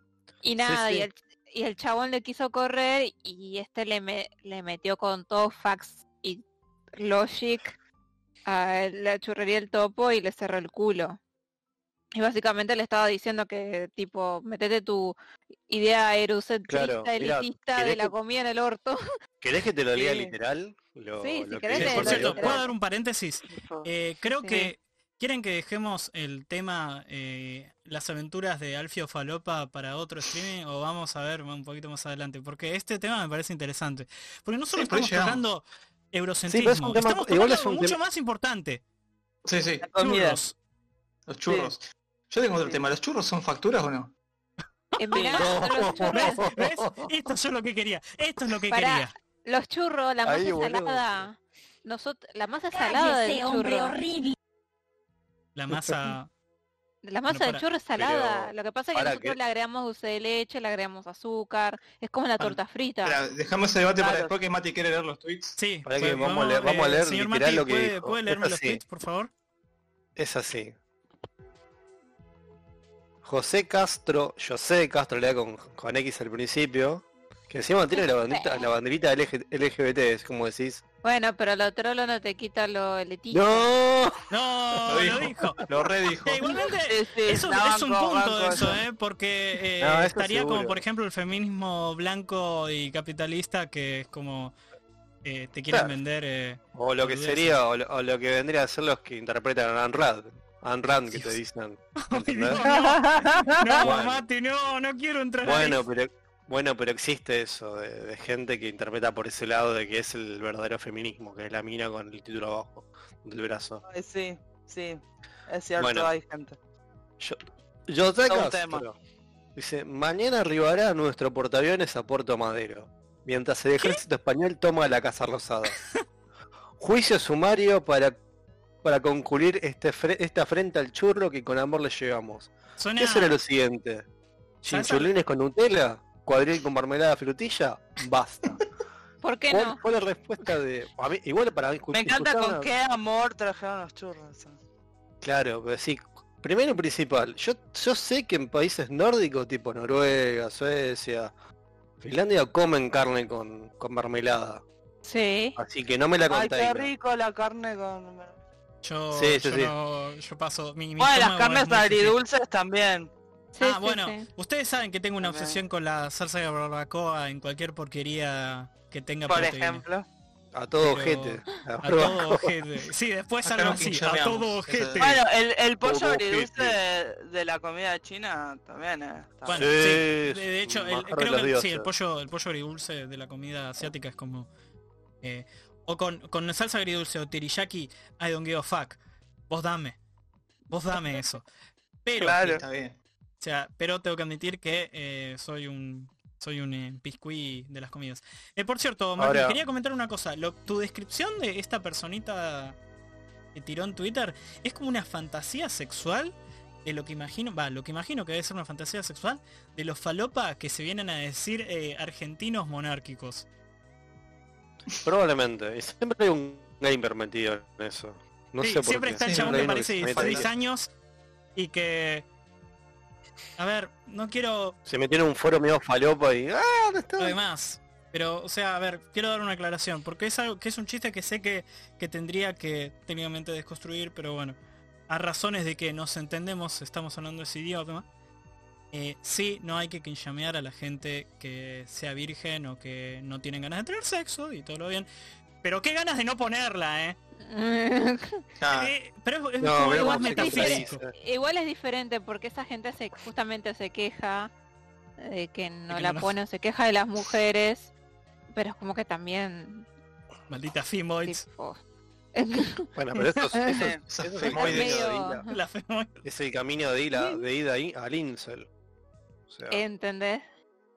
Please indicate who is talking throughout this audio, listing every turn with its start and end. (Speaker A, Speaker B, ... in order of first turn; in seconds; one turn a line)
Speaker A: 0.4-6.4
Speaker B: 0.6-1.1
Speaker A: 7.0-7.8
Speaker A: 8.4-11.2
Speaker A: 12.1-15.1
Speaker A: 15.7-19.0
Speaker B: 16.7-18.1
Speaker B: 19.4-22.6
Speaker C: 19.9-20.3
Speaker A: 21.2-22.7
Speaker D: 21.8-38.8
Speaker E: 21.8-22.3
Speaker C: 23.5-23.9
Speaker A: 24.3-24.7
Speaker E: 34.7-35.4
Speaker B: 36.5-38.0
Speaker E: 39.4-39.9
Speaker C: 39.8-40.4
Speaker D: 40.0-40.5
Speaker E: 41.3-44.1
Speaker C: 41.5-41.7
Speaker D: 44.9-45.4
Speaker A: 45.0-46.4
Speaker B: 45.3-47.1
Speaker D: 46.1-49.1
Speaker A: 48.7-54.0
Speaker B: 50.2-51.3
Speaker D: 55.5-56.3
Speaker B: 55.7-56.1
Speaker A: 57.0-63.2
Speaker D: 57.3-57.6
Speaker B: 57.9-59.4
Speaker E: 62.4-65.6
Speaker C: 64.0-64.3
Speaker D: 65.6-69.3
Speaker B: 65.8-68.8
Speaker B: 70.2-70.8
Speaker B: 73.2-80.8
Speaker A: 78.3-78.7
Speaker A: 81.0-83.7
Speaker B: 83.3-84.2
Speaker D: 84.3-85.6
Speaker E: 84.9-86.5
Speaker D: 86.2-94.5
Speaker C: 86.9-88.8
Speaker B: 89.8-90.8
Speaker D: 95.2-97.6
Speaker B: 96.7-102.6
Speaker D: 101.1-101.4
Speaker D: 102.0-105.8
Speaker C: 102.6-103.9
Speaker B: 103.8-104.2
Speaker B: 105.4-113.8
Speaker C: 113.9-116.5
Speaker B: 115.8-116.1
Speaker B: 117.2-119.0
Speaker C: 118.3-118.8
Speaker B: 119.5-125.8
Speaker D: 123.8-124.0
Speaker B: 126.8-128.2
Speaker B: 128.8-134.0
Speaker D: 132.8-133.4
Speaker B: 134.6-138.6
Speaker D: 134.7-135.1
Speaker A: 139.2-139.8
Speaker B: 139.5-142.7
Speaker C: 141.9-144.5
Speaker B: 145.2-151.3
Speaker B: 152.0-154.6
Speaker A: 155.0-155.6
Speaker B: 155.6-156.9
Speaker C: 156.3-158.3
Speaker D: 158.8-162.2
Speaker B: 159.1-159.7
Speaker C: 161.0-163.1
Speaker A: 163.5-164.2
Speaker D: 163.6-169.8
Speaker C: 165.2-165.6
Speaker C: 169.3-170.0
Speaker B: 170.5-172.5
Speaker D: 170.8-175.2
Speaker E: 173.4-175.1
Speaker C: 175.0-179.7
Speaker B: 175.8-176.8
Speaker D: 179.4-184.5
Speaker B: 179.5-181.9
Speaker D: 185.2-189.0
Speaker D: 189.5-190.0
Speaker D: 190.7-191.4
Speaker D: 192.0-192.4
Speaker C: 192.2-192.6
Speaker E: 192.4-193.0
Speaker D: 193.4-202.8
Speaker B: 199.2-199.6
Speaker D: 203.5-213.4
Speaker B: 215.0-220.5
Speaker D: 218.6-220.9
Speaker E: 219.2-220.5
Speaker D: 221.6-222.2
Speaker D: 223.6-224.8
Speaker B: 224.9-227.4
Speaker D: 227.2-234.6
Speaker D: 235.1-238.1
Speaker D: 238.9-245.1
Speaker D: 245.6-247.2
Speaker A: 247.4-248.4
Speaker E: 248.6-248.9
Speaker D: 248.7-251.0
Speaker B: 249.6-251.1
Speaker A: 249.9-254.5
Speaker A: 255.2-257.9
Speaker D: 255.9-256.4
Speaker A: 258.5-259.9
Speaker D: 260.5-261.4
Speaker A: 261.2-261.8
Speaker A: 262.4-262.9
Speaker B: 262.9-265.4
Speaker A: 263.5-263.9
Speaker E: 264.1-265.0
Speaker A: 264.5-265.6
Speaker D: 265.5-266.2
Speaker B: 266.2-268.7
Speaker B: 269.5-269.8
Speaker A: 269.7-270.4